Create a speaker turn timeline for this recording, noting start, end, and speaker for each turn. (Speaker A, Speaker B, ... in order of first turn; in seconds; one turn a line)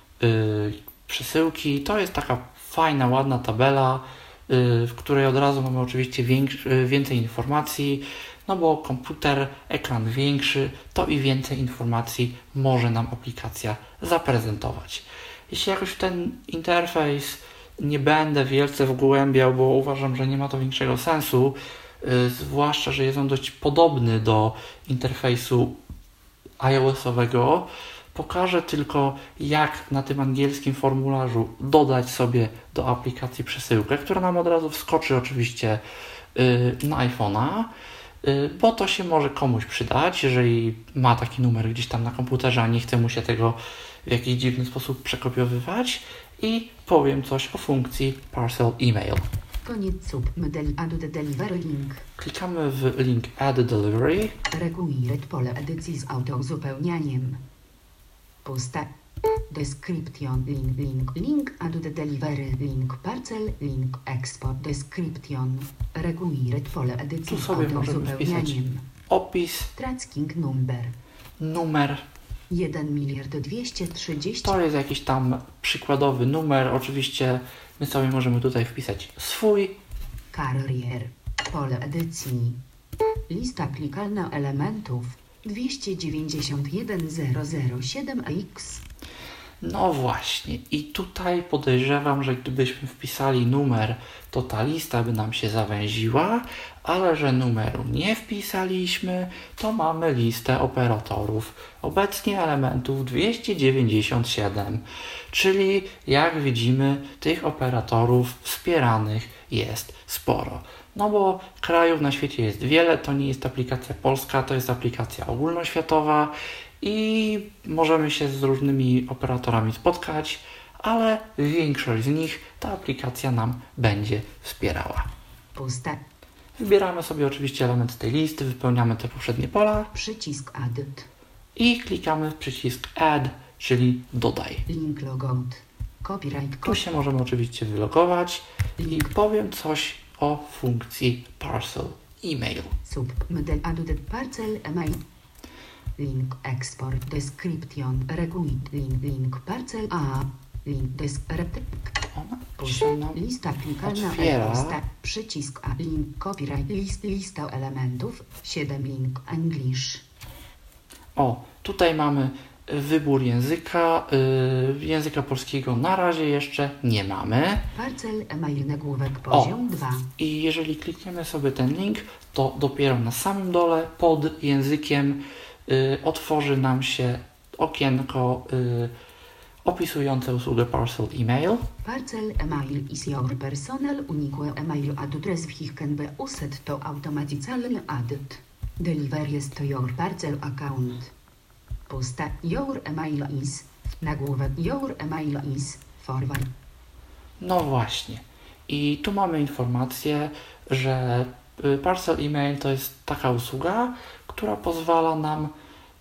Speaker A: 0.2-25.8
Speaker A: 26.6-35.8
Speaker A: 36.3-37.7
Speaker A: 38.2-49.2
Speaker B: 49.6-52.0
Speaker A: 52.2-54.4
Speaker B: 54.5-57.4
Speaker B: 58.4-58.9
Speaker B: 59.5-68.8
Speaker A: 67.3-68.6
Speaker A: 69.1-69.7
Speaker B: 69.8-71.0
Speaker A: 71.4-72.0
Speaker B: 72.5-74.6
Speaker A: 74.4-79.8
Speaker B: 80.3-82.6
Speaker B: 83.3-88.8
Speaker A: 89.6-125.1
Speaker B: 125.5-126.0
Speaker A: 126.6-129.9
Speaker B: 129.9-131.1
Speaker A: 131.6-134.7
Speaker B: 134.7-136.8
Speaker A: 136.6-142.7
Speaker B: 138.8-139.1
Speaker B: 142.8-145.0
Speaker B: 146.0-151.9
Speaker A: 152.1-153.2
Speaker B: 152.6-160.0
Speaker A: 153.8-154.8
Speaker A: 161.2-167.7
Speaker B: 167.7-170.1
Speaker A: 169.3-169.6
Speaker A: 170.2-178.9
Speaker A: 179.6-181.7
Speaker B: 181.8-191.1
Speaker B: 191.9-196.5
Speaker A: 197.4-205.5